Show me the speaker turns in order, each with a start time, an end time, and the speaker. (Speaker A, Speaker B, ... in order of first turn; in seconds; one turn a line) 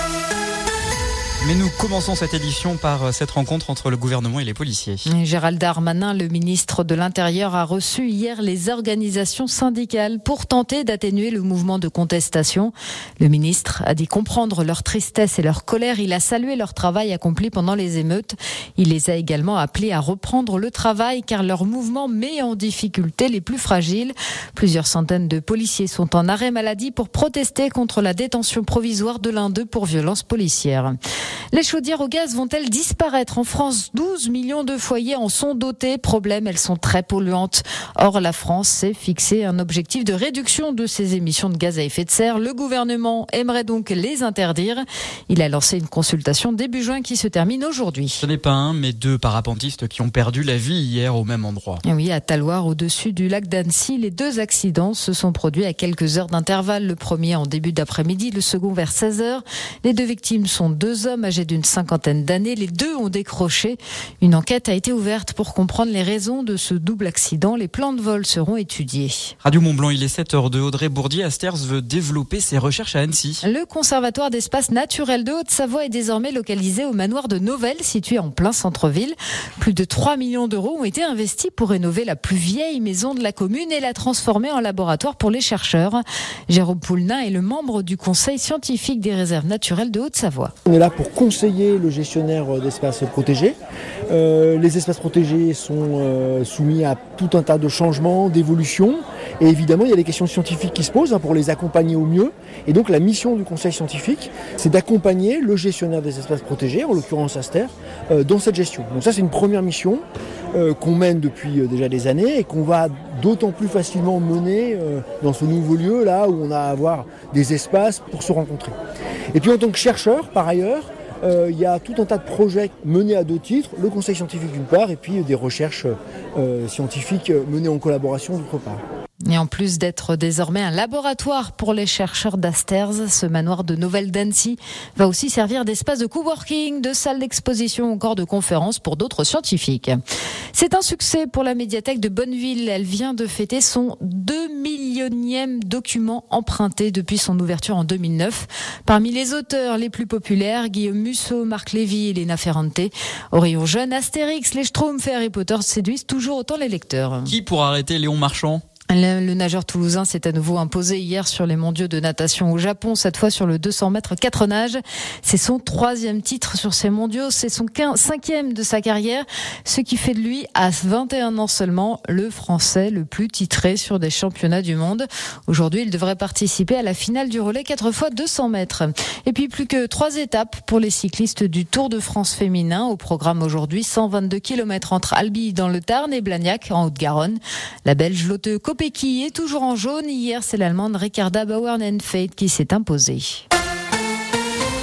Speaker A: 1.4-5.1
Speaker B: 5.1-30.9
Speaker B: 31.5-48.2
Speaker A: 48.2-51.8
Speaker B: 51.9-69.3
Speaker A: 69.4-73.4
Speaker B: 73.4-90.5
Speaker C: 90.7-93.6
Speaker C: 94.1-118.8
Speaker C: 119.3-128.8
Speaker B: 129.3-140.0
Speaker B: 140.5-157.3
Speaker A: 157.3-158.6
Speaker B: 158.9-193.4